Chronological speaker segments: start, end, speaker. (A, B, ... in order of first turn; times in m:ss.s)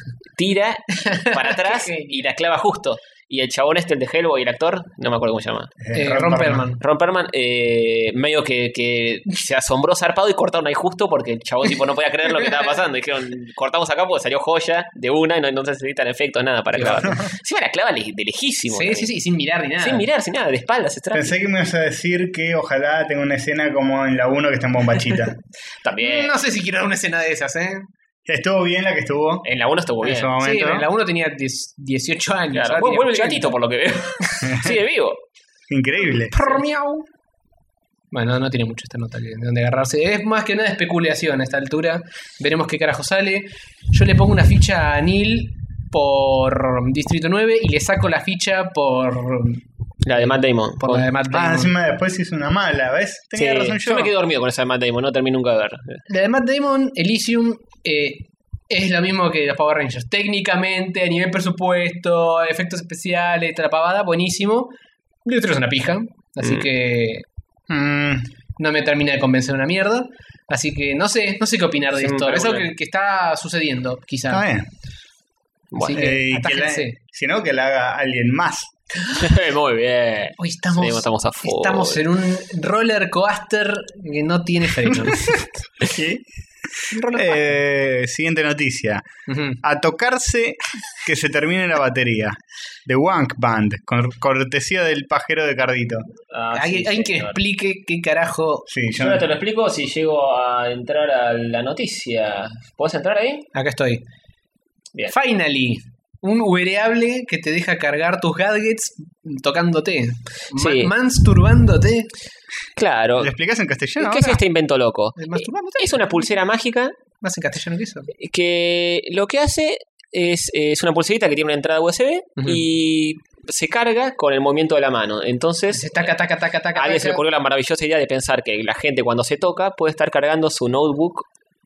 0:00.4-0:05.7 A
0:01.0-0:02.2 B
0:05.8-0:06.7 C
0:05.9-0:06.8 B
0:06.8-0:19.1 A
0:16.8-0:17.1 B
0:18.7-0:20.1 B
0:19.8-0:21.3 A
0:21.1-0:25.4 C
0:25.8-0:26.4 A
0:26.0-0:27.9 B
0:28.2-0:29.4 C
0:29.4-0:30.3 A
0:30.0-0:30.9 C
0:30.3-0:33.6 B
0:32.5-0:35.2 A
0:35.7-0:36.5 C
0:36.3-0:37.1 B
0:38.1-0:49.6 B
0:50.0-0:51.1 A
0:50.2-0:51.7 B
0:51.3-0:54.1 C
0:53.3-0:56.0 A
0:56.1-1:04.7 B
1:05.2-1:07.2 B
1:06.4-1:06.7 A
1:07.7-1:08.3 C
1:08.6-1:14.4 B
1:12.0-1:12.7 A
1:14.3-1:14.7 C
1:15.7-1:16.1 A
1:15.8-1:16.9 B
1:15.9-1:18.7 C
1:19.2-1:22.0 A
1:20.4-1:25.4 B
1:25.8-1:29.0 C
1:26.9-1:27.5 B
1:29.3-1:29.6 B
1:29.6-1:36.0 C
1:36.3-1:37.4 A
1:36.5-1:38.7 B
1:38.7-1:39.2 C
1:39.0-1:43.5 A
1:43.5-1:44.0 B
1:45.1-1:52.1 B
1:50.5-1:50.9 A
1:52.8-1:53.3 A
1:53.2-1:54.4 C
1:54.0-1:56.9 A
1:55.2-1:56.3 B
1:57.2-1:58.1 B
1:58.1-2:06.1 A
2:02.4-2:02.6 B
2:05.7-2:07.2 B
2:06.7-2:11.2 A